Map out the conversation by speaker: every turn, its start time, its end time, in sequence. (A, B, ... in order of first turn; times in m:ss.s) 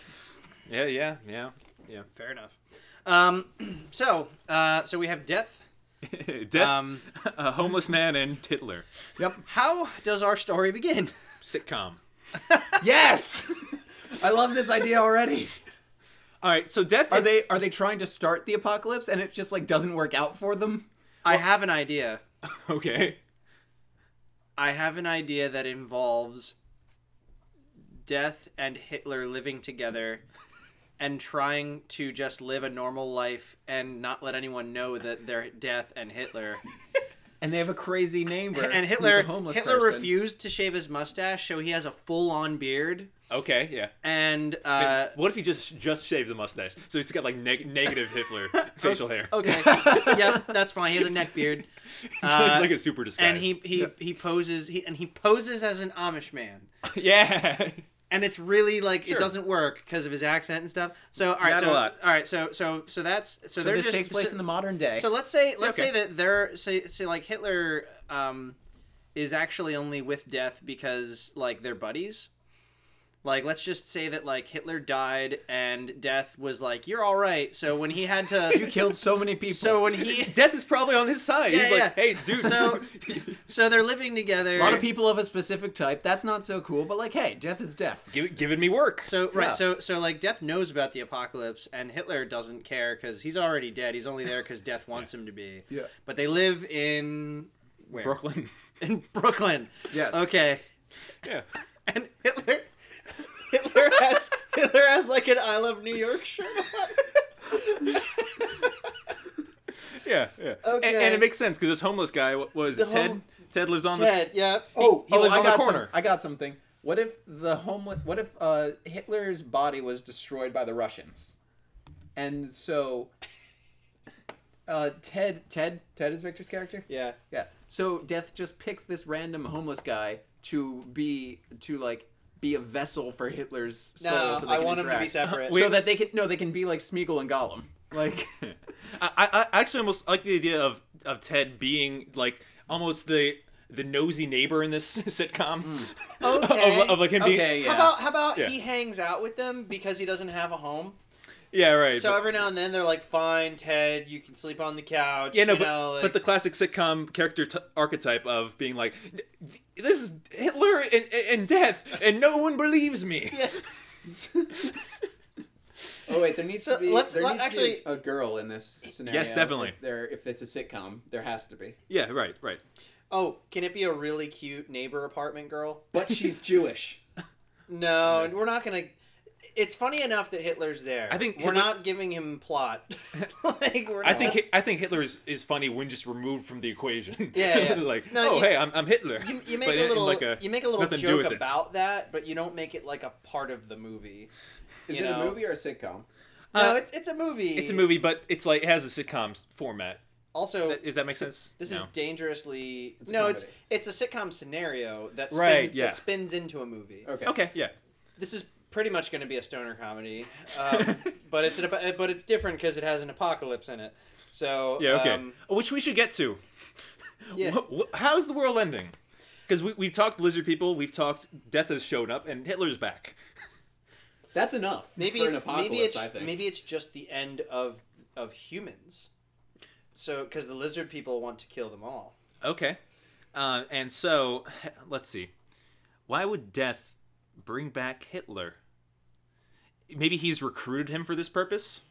0:00.7-0:02.1 A
0:02.1-0:05.6 B
0:06.0-0:08.9 A
0:06.5-0:07.0 B
0:09.2-0:09.4 C
0:09.4-0:11.1 B
0:11.4-0:12.0 A
0:12.4-0:12.8 B
0:12.8-0:15.6 C
0:16.4-0:17.4 A
0:17.1-0:20.9 C
0:21.2-0:22.2 B
0:22.4-0:23.2 A
0:24.6-0:26.5 B
0:28.0-0:30.2 B
0:31.0-0:36.6 B
0:37.4-0:40.2 C
0:38.5-0:43.1 B
0:43.3-0:43.9 A
0:44.0-0:45.1 B
0:44.8-0:50.2 A
0:48.6-0:51.6 B
0:49.7-0:50.2 C
0:52.1-0:53.6 A
0:52.2-0:56.7 B
0:56.8-0:57.8 A
0:58.1-1:04.4 B
0:59.0-0:59.3 A
1:01.4-1:01.9 A
1:03.6-1:05.1 C
1:04.9-1:08.6 B
1:05.6-1:05.9 A
1:09.1-1:12.3 B
1:13.2-1:20.4 B
1:18.5-1:20.1 C
1:20.1-1:23.4 A
1:21.5-1:22.9 B
1:23.4-1:24.8 B
1:24.6-1:28.1 C
1:28.1-1:29.1 A
1:29.0-1:38.2 B
1:29.3-1:29.6 C
1:37.9-1:38.5 A
1:38.8-1:40.6 B
1:39.9-1:40.2 C
1:41.9-1:47.1 B
1:49.9-1:55.9 A
1:50.6-1:51.3 B
1:52.7-1:53.2 B
1:53.9-1:54.8 B
1:54.8-2:01.4 C
2:02.1-2:03.1 C
2:04.7-2:18.3 C
2:06.9-2:07.2 B
2:14.0-2:15.8 B
2:15.2-2:15.8 A
2:18.4-2:27.7 A
2:25.6-2:25.9 C
2:26.2-2:31.0 B
2:27.2-2:28.0 C
2:31.5-2:32.2 A
2:31.6-2:36.2 B
2:35.3-2:43.5 A
2:44.0-2:44.7 C
2:46.1-2:51.8 C
2:46.6-2:48.0 B
2:49.0-2:49.8 A
2:51.9-2:52.6 A
2:53.1-2:55.9 B
2:55.9-2:57.0 C
2:57.7-2:58.9 B
2:59.6-3:04.4 B
3:01.1-3:01.8 A
3:04.0-3:11.6 A
3:07.3-3:14.3 B
3:14.9-3:16.1 C
3:14.9-3:15.4 B
3:16.5-3:16.8 A
3:16.5-3:17.9 B
3:17.6-3:20.0 A
3:20.3-3:20.9 B
3:20.7-3:21.9 A
3:21.6-3:27.1 B
3:23.0-3:23.5 C
3:25.3-3:26.0 A
3:27.0-3:27.4 C
3:27.2-3:27.7 A
3:28.2-3:35.4 B
3:30.7-3:31.1 A
3:34.8-3:36.4 A
3:37.3-3:38.9 A
3:37.3-3:37.6 B
3:39.5-3:43.2 A
3:44.3-3:46.4 C
3:45.0-3:49.1 B
3:49.9-3:52.1 B
3:52.4-3:52.8 A
3:53.3-3:55.3 A
3:56.1-3:58.6 A
3:59.9-4:01.8 A